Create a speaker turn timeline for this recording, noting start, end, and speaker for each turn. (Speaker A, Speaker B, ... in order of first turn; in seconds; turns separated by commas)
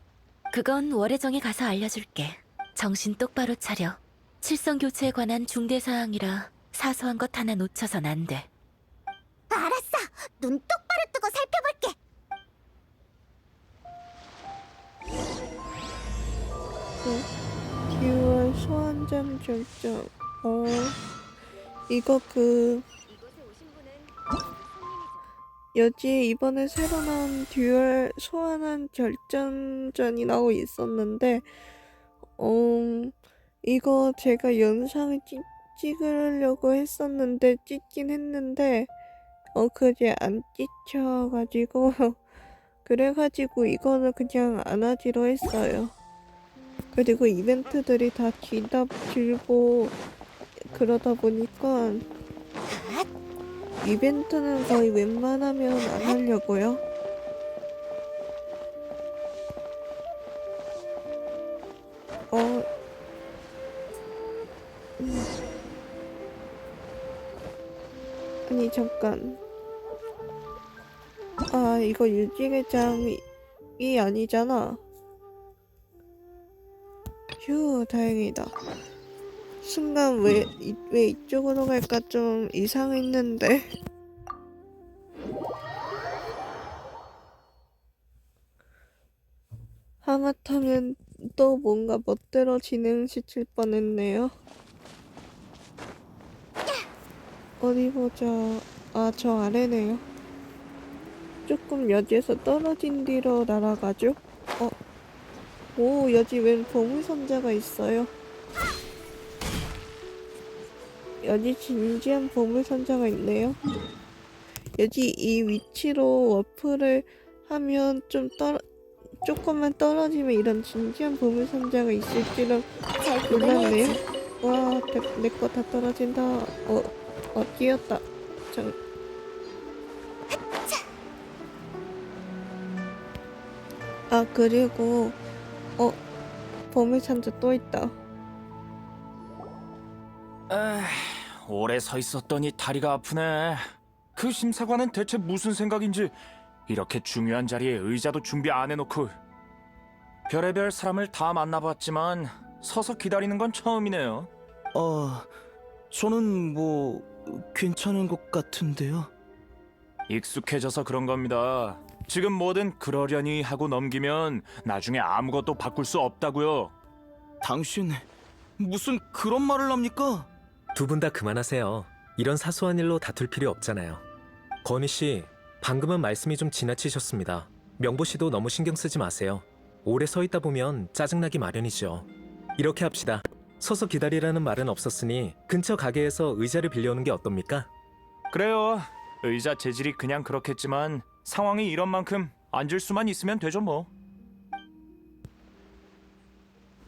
Speaker A: 0.5-8.5, Speaker B: 9.5-11.8, Speaker C: 17.0-17.3, Speaker C: 17.9-21.0, Speaker C: 21.9-22.9, Speaker C: 25.8-31.5, Speaker C: 32.4-38.9, Speaker C: 39.5-42.2, Speaker C: 42.9-45.9, Speaker C: 46.9-50.0, Speaker C: 50.7-52.0, Speaker B: 52.7-53.0, Speaker C: 53.8-56.8, Speaker C: 62.3-62.7, Speaker C: 65.0-65.3, Speaker C: 68.5-69.4, Speaker C: 71.5-73.2, Speaker C: 73.8-74.8, Speaker C: 77.4-78.5, Speaker C: 79.6-83.7, Speaker C: 90.0-94.3, Speaker C: 97.6-100.0, Speaker C: 101.5-104.7, Speaker C: 105.8-108.1, Speaker C: 111.2-113.6, Speaker C: 114.8-118.6, Speaker C: 119.2-122.7, Speaker B: 123.0-124.0, Speaker C: 123.3-128.8, Speaker C: 134.1-135.2, Speaker C: 136.7-137.9, Speaker D: 140.5-146.2, Speaker D: 146.7-149.2, Speaker D: 150.3-154.3, Speaker E: 154.7-155.3, Speaker E: 155.9-159.1, Speaker D: 160.1-166.7, Speaker E: 167.4-168.1, Speaker E: 168.6-170.3, Speaker F: 170.8-174.0, Speaker F: 174.6-187.7, Speaker D: 188.3-193.9